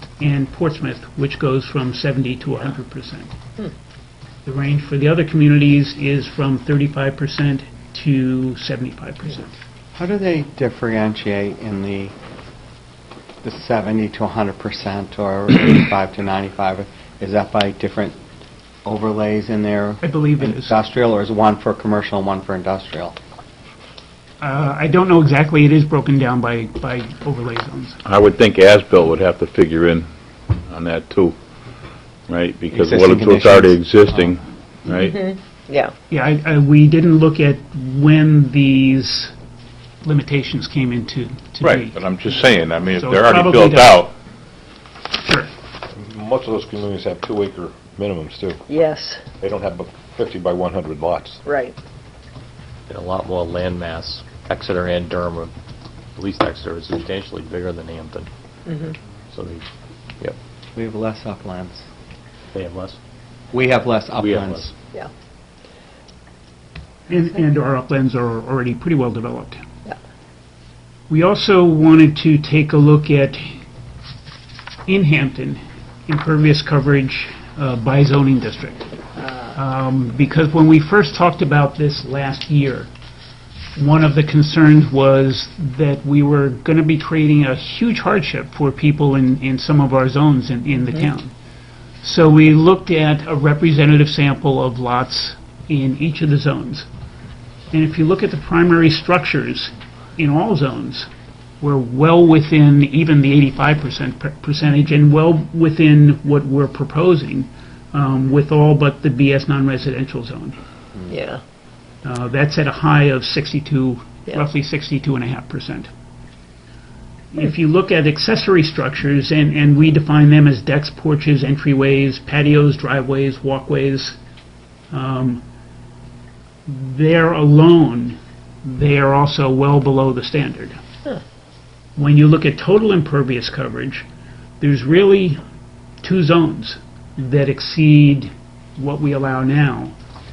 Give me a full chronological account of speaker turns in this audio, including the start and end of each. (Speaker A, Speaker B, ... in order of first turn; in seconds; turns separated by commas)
Speaker A: 0.2-3.3, Speaker A: 4.4-9.5, Speaker B: 9.9-12.1, Speaker B: 13.4-18.2, Speaker B: 18.8-23.1, Speaker A: 20.0-20.8, Speaker A: 24.4-28.0, Speaker C: 28.0-30.1, Speaker C: 30.7-31.4, Speaker C: 32.3-35.2, Speaker B: 32.7-34.3, Speaker D: 35.0-35.9, Speaker A: 36.1-39.3, Speaker A: 40.0-42.0, Speaker C: 41.6-44.1, Speaker A: 42.9-44.0, Speaker A: 45.1-45.5, Speaker E: 46.0-48.6, Speaker D: 48.7-49.2, Speaker E: 49.4-51.4, Speaker D: 51.5-51.8, Speaker F: 52.9-55.5, Speaker F: 56.2-58.3, Speaker D: 58.7-58.9, Speaker F: 59.3-59.6, Speaker B: 60.8-61.8, Speaker F: 62.5-63.0, Speaker B: 63.5-64.7, Speaker F: 64.2-64.7, Speaker A: 67.1-69.6, Speaker A: 71.1-73.6, Speaker A: 74.9-78.9, Speaker D: 79.2-79.5, Speaker A: 79.5-82.9, Speaker A: 83.8-91.3, Speaker A: 92.0-96.9, Speaker A: 97.7-101.1, Speaker A: 101.6-110.6, Speaker D: 111.1-111.4, Speaker A: 112.0-115.9, Speaker A: 117.3-124.2, Speaker A: 124.9-125.4, Speaker A: 126.7-130.8, Speaker A: 132.0-134.1, Speaker A: 134.6-135.4, Speaker A: 136.0-139.9